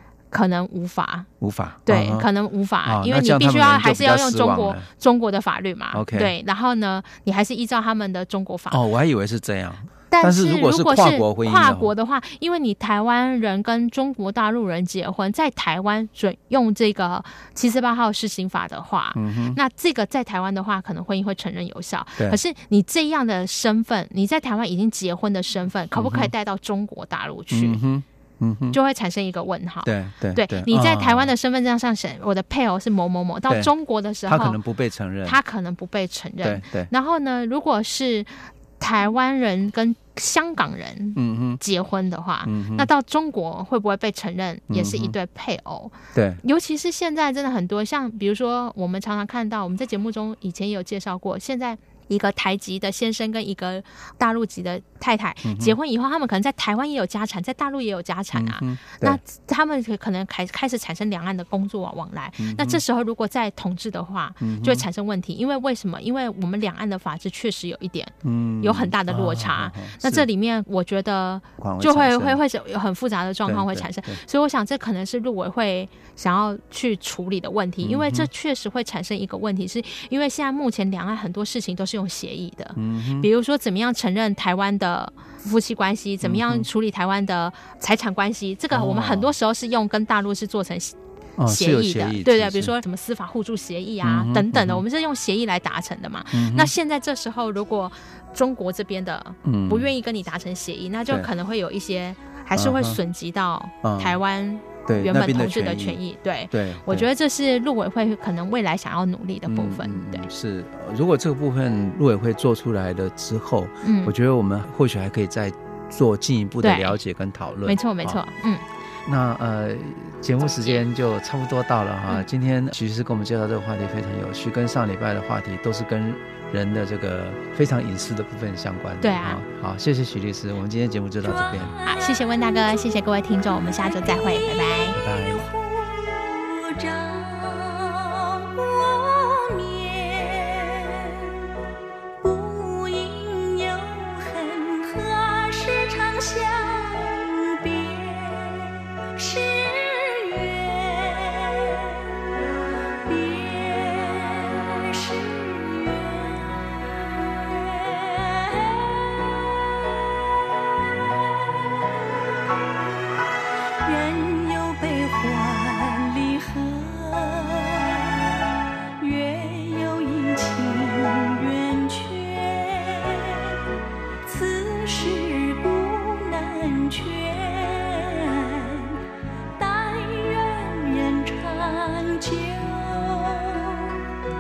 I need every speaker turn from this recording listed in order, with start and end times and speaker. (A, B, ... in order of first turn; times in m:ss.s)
0:00.3-0:01.3 A
0:01.4-0:02.3 B
0:01.8-0:08.8 A
0:02.8-0:04.9 B
0:05.9-0:06.3 B
0:08.7-0:11.9 B
0:10.1-0:27.8 A
0:19.2-0:19.6 B
0:26.0-0:26.3 B
0:27.5-0:28.8 B
0:28.7-0:34.6 A
0:29.8-0:31.3 B
0:34.3-0:35.4 B
0:35.2-1:31.0 A
0:36.4-0:36.9 B
0:41.2-0:41.6 B
0:42.5-0:42.9 B
0:44.7-0:45.2 B
0:46.1-0:46.4 B
0:55.4-0:55.8 B
0:58.3-0:59.2 B
1:02.4-1:02.8 B
1:04.4-1:04.9 B
1:08.2-1:10.3 B
1:11.6-1:12.4 B
1:13.5-1:14.2 B
1:17.8-1:18.3 B
1:22.8-1:23.3 B
1:26.2-1:26.7 B
1:28.7-1:29.3 B
1:31.4-1:32.7 B
1:31.5-1:50.3 A
1:34.0-1:34.8 B
1:36.3-1:36.7 B
1:39.4-1:39.9 B
1:42.6-1:43.0 B
1:43.8-1:44.2 B
1:44.9-1:46.0 B
1:46.5-1:47.1 B
1:49.5-1:58.2 B
1:53.8-1:54.1 A
1:56.6-1:57.0 A
1:57.7-1:58.6 A
1:59.1-2:11.8 B
2:00.4-2:00.8 A
2:09.0-2:09.4 A
2:11.2-2:12.8 C
2:11.9-2:15.0 A
2:14.0-2:21.3 C
2:14.9-2:15.5 B
2:22.2-2:32.1 C
2:33.0-2:36.5 C
2:37.0-2:39.5 C
2:43.8-2:48.3 C
2:49.0-2:53.6 C
2:54.2-2:59.0 C
2:59.6-3:04.0 C